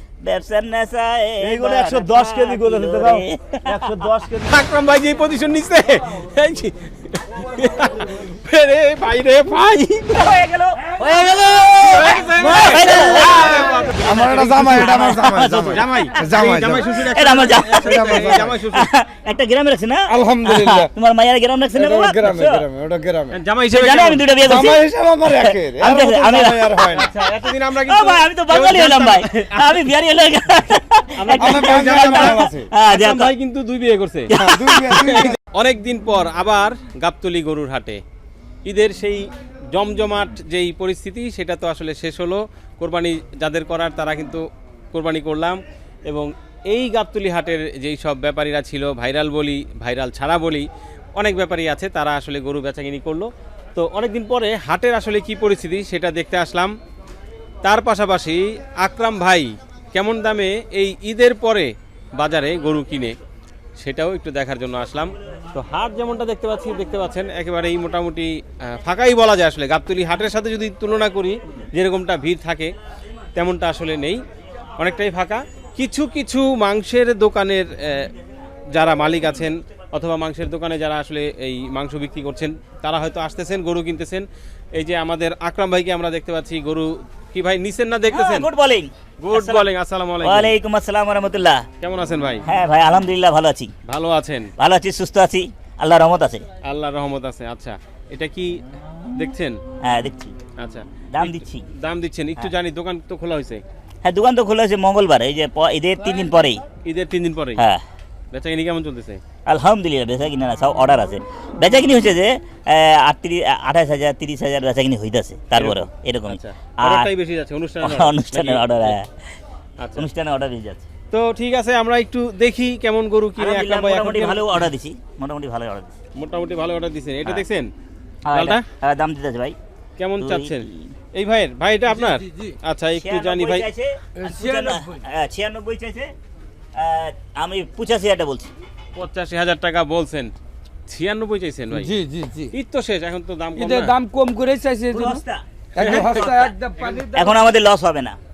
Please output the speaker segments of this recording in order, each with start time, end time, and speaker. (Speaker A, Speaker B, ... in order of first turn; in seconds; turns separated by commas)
Speaker A: 0.2-3.9, Speaker B: 1.6-2.9, Speaker B: 3.8-4.4, Speaker C: 4.4-10.4, Speaker A: 10.1-22.6, Speaker C: 11.7-15.1, Speaker D: 12.7-13.4, Speaker D: 14.0-17.0, Speaker C: 15.7-18.9, Speaker D: 17.7-18.5, Speaker D: 20.1-20.9, Speaker D: 21.8-23.3, Speaker C: 23.3-24.2, Speaker A: 23.7-24.8, Speaker D: 24.4-27.1, Speaker A: 25.4-27.2, Speaker C: 26.9-29.9, Speaker A: 27.8-33.3, Speaker C: 31.2-38.0, Speaker D: 31.4-32.7, Speaker A: 34.3-35.2, Speaker D: 34.5-35.4, Speaker C: 38.6-56.7, Speaker C: 57.6-63.1, Speaker C: 63.8-72.7, Speaker C: 73.3-74.2, Speaker C: 74.8-78.1, Speaker C: 78.7-88.5, Speaker A: 88.1-89.7, Speaker C: 89.2-90.5, Speaker A: 90.2-91.7, Speaker C: 91.8-92.4, Speaker A: 92.4-93.7, Speaker C: 93.9-94.5, Speaker A: 94.6-96.5, Speaker C: 96.6-98.6, Speaker C: 99.1-99.6, Speaker A: 99.8-100.3, Speaker C: 100.6-103.6, Speaker A: 101.1-101.7, Speaker A: 104.0-106.6, Speaker C: 106.8-107.6, Speaker A: 107.6-107.8, Speaker C: 108.3-109.2, Speaker A: 109.5-117.1, Speaker C: 115.5-119.0, Speaker A: 117.8-119.1, Speaker C: 119.8-120.0, Speaker A: 120.0-120.9, Speaker C: 121.1-124.7, Speaker A: 123.4-125.9, Speaker C: 126.1-127.7, Speaker A: 128.2-129.6, Speaker C: 128.3-128.6, Speaker C: 130.0-133.7, Speaker A: 130.2-130.9, Speaker E: 132.0-132.5, Speaker A: 132.9-136.1, Speaker E: 134.2-135.0, Speaker A: 136.8-138.5, Speaker C: 138.9-140.3, Speaker C: 140.9-141.9, Speaker E: 141.7-142.5, Speaker C: 142.5-143.9, Speaker E: 143.6-145.2, Speaker A: 144.9-146.5, Speaker C: 145.8-147.2, Speaker E: 145.8-147.3, Speaker A: 147.1-148.2